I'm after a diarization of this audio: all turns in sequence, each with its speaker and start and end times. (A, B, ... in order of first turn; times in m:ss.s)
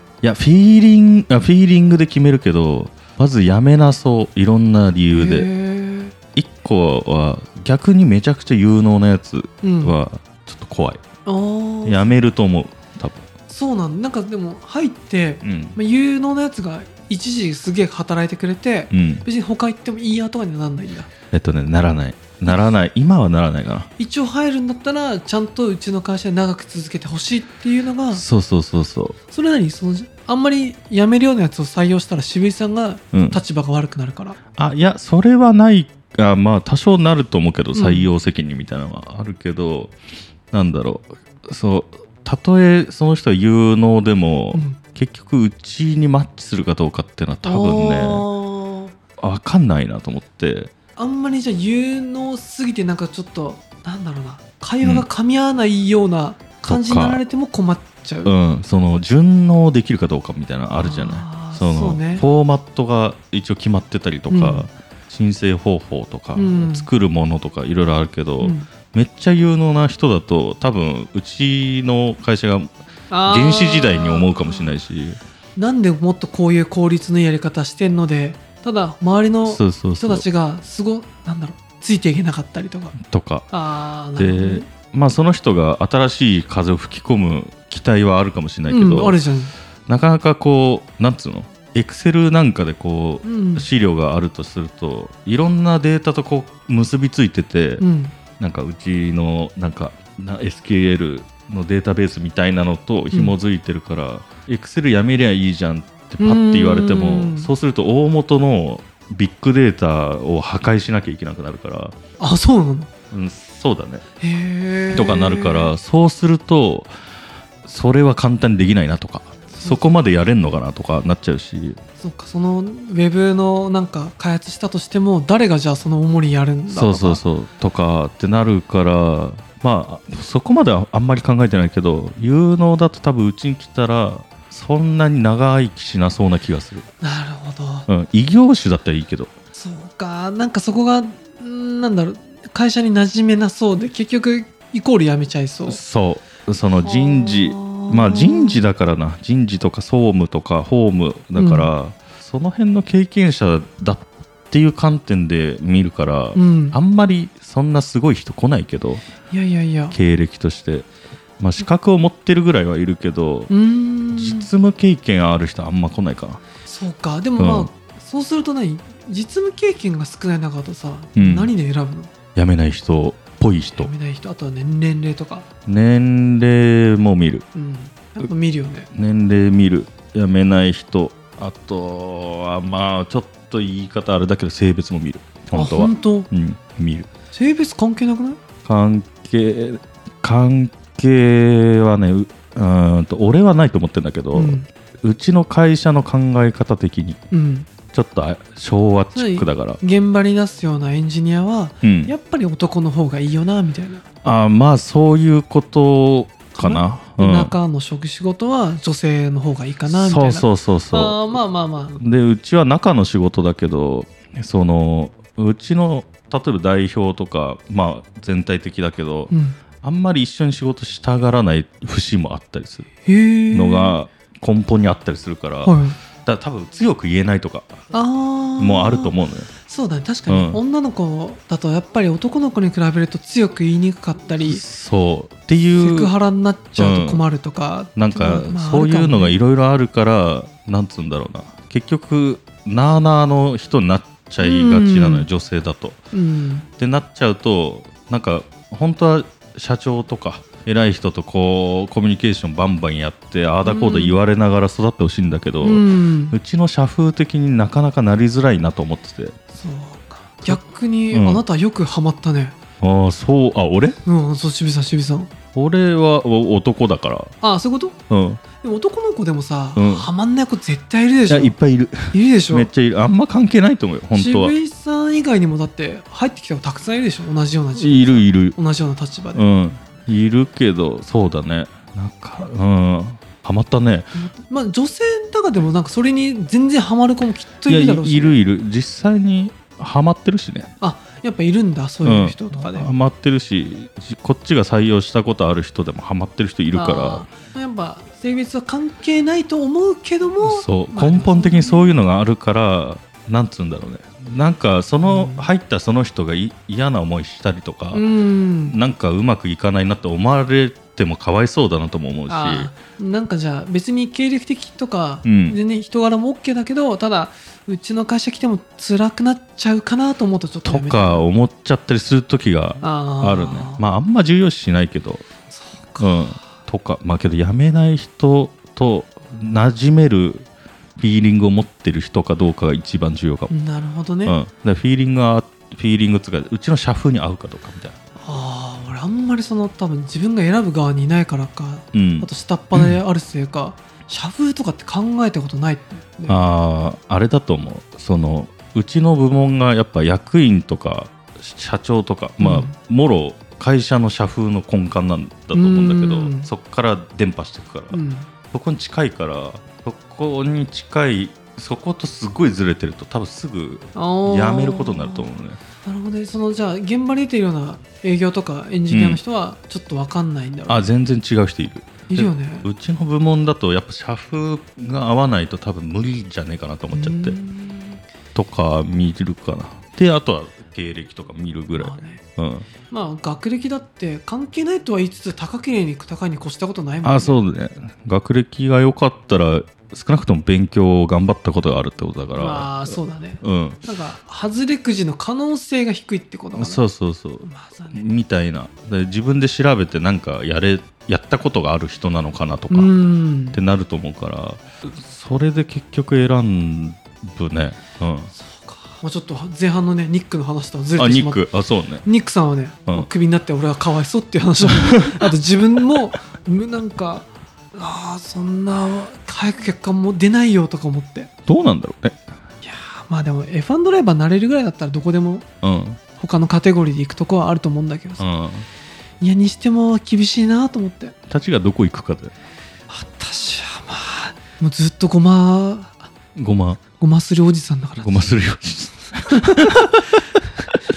0:00.2-0:05.5 A
0:05.1-0:06.1 B
0:06.4-0:11.0 A
0:09.6-0:10.0 B
0:11.2-0:12.2 B
0:11.8-0:13.3 A
0:13.5-0:21.1 B
0:15.4-0:15.8 A
0:18.9-0:19.2 A
0:21.3-0:23.9 A
0:22.4-0:22.7 B
0:24.0-0:28.2 B
0:28.1-0:29.2 A
0:29.3-0:34.4 B
0:33.1-0:33.4 A
0:34.6-0:39.9 A
0:37.7-0:38.1 B
0:40.5-0:48.3 A
0:44.5-0:44.8 B
0:47.4-0:48.9 B
0:49.2-0:50.7 A
0:51.0-0:58.3 B
0:56.6-0:57.2 A
0:58.2-1:12.7 A
1:00.8-1:02.2 B
1:04.3-1:04.7 B
1:06.3-1:06.9 B
1:08.4-1:08.7 B
1:13.1-1:14.7 B
1:13.2-1:15.2 A
1:15.6-1:23.0 B
1:19.4-1:20.2 A
1:23.0-1:23.4 A
1:23.5-1:24.6 B
1:24.2-1:29.2 A
1:28.7-1:29.5 B
1:29.9-1:37.8 A
1:33.2-1:33.6 B
1:37.8-1:38.1 B
1:38.4-1:52.0 A
1:46.2-1:47.5 B
1:52.2-1:52.9 B
1:53.1-1:54.0 A
1:54.2-1:55.7 B
1:54.9-1:56.9 A
1:57.6-2:01.8 A
1:59.5-1:59.9 B
2:02.0-2:07.2 B
2:06.7-2:16.8 A
2:17.0-2:17.9 B
2:17.9-2:19.3 A
2:19.5-2:25.8 B
2:25.7-2:39.0 A
2:26.8-2:28.6 B
2:31.4-2:31.7 B
2:36.3-2:36.8 B
2:39.3-2:40.0 B
2:39.9-2:40.9 A
2:41.4-2:43.5 A
2:43.5-2:44.5 B
2:44.1-2:46.4 A
2:46.7-2:52.1 B
2:47.4-2:47.7 A
2:51.2-2:51.5 A
2:52.3-2:53.9 A
2:53.7-2:55.4 B
2:55.7-2:57.4 A
2:57.5-2:58.9 B
2:58.9-3:07.1 A
3:05.5-3:06.3 B
3:07.3-3:08.4 B
3:08.6-3:17.2 A
3:14.3-3:14.7 B
3:17.3-3:17.7 B
3:17.9-3:19.8 A
3:19.1-3:24.0 B
3:21.8-3:22.1 A
3:24.2-3:27.5 A
3:26.6-3:32.0 B
3:29.9-3:31.3 A
3:32.0-3:42.9 A
3:39.3-3:39.6 B
3:43.0-3:43.9 B
3:43.5-3:47.8 A
3:45.6-3:46.0 B
3:47.9-3:49.1 B
3:48.6-3:49.5 A
3:49.7-3:54.6 B
3:50.3-3:50.6 A
3:54.4-3:56.1 A
3:55.6-3:59.4 B
3:56.8-3:57.2 A
3:58.0-4:06.0 A
4:04.4-4:05.3 B
4:06.1-4:06.7 B
4:06.8-4:19.4 A
4:13.6-4:14.2 B
4:15.6-4:16.4 B
4:19.6-4:22.5 B
4:20.4-4:21.4 A
4:22.8-4:24.0 A
4:24.0-4:25.3 B
4:25.5-4:27.3 A
4:27.4-4:28.0 B
4:28.1-4:28.4 A
4:28.6-4:31.6 B
4:29.8-4:30.1 A
4:31.3-4:34.5 A
4:32.1-4:32.7 B
4:34.1-4:39.4 B
4:37.7-4:38.6 A
4:39.3-4:44.1 A
4:44.1-4:48.4 B
4:47.7-4:50.7 A
4:50.8-4:52.9 B
4:52.0-4:57.2 A
4:56.7-5:01.9 B
5:00.4-5:08.0 A
5:05.0-5:05.5 B
5:07.9-5:08.8 B
5:08.7-5:12.7 A
5:12.3-5:21.3 B
5:15.2-5:15.6 A
5:20.6-5:25.2 A
5:22.8-5:23.8 B
5:25.5-5:26.5 B
5:26.0-5:30.4 A
5:31.0-5:33.5 A
5:33.5-5:34.4 B
5:34.2-5:38.0 A
5:38.2-5:46.4 B
5:41.9-5:43.0 A
5:46.3-5:58.0 A
5:52.4-5:52.7 B
5:55.5-5:56.5 B
5:57.9-5:58.3 B
5:58.5-6:05.6 A
6:03.9-6:05.3 B
6:05.8-6:10.8 B
6:08.9-6:09.2 A
6:10.7-6:17.4 A
6:12.1-6:12.7 B
6:16.9-6:18.0 B
6:18.3-6:22.7 A
6:21.8-6:22.2 B
6:22.9-6:27.4 B
6:27.0-6:33.8 A
6:32.3-6:36.8 B
6:36.6-6:42.9 A
6:37.4-6:38.0 B
6:42.7-6:43.6 B
6:43.5-6:48.3 A
6:48.3-6:51.4 B
6:51.0-6:52.0 A
6:52.0-7:01.3 B
6:54.7-6:55.3 A
7:01.5-7:02.2 A
7:02.6-7:05.4 B
7:05.6-7:06.0 A
7:06.2-7:08.2 B
7:08.2-7:08.6 A
7:09.2-7:11.1 B
7:11.3-7:12.3 A
7:12.9-7:16.1 B
7:16.3-7:16.8 A
7:17.0-7:18.3 B
7:18.0-7:20.0 A
7:19.3-7:20.0 B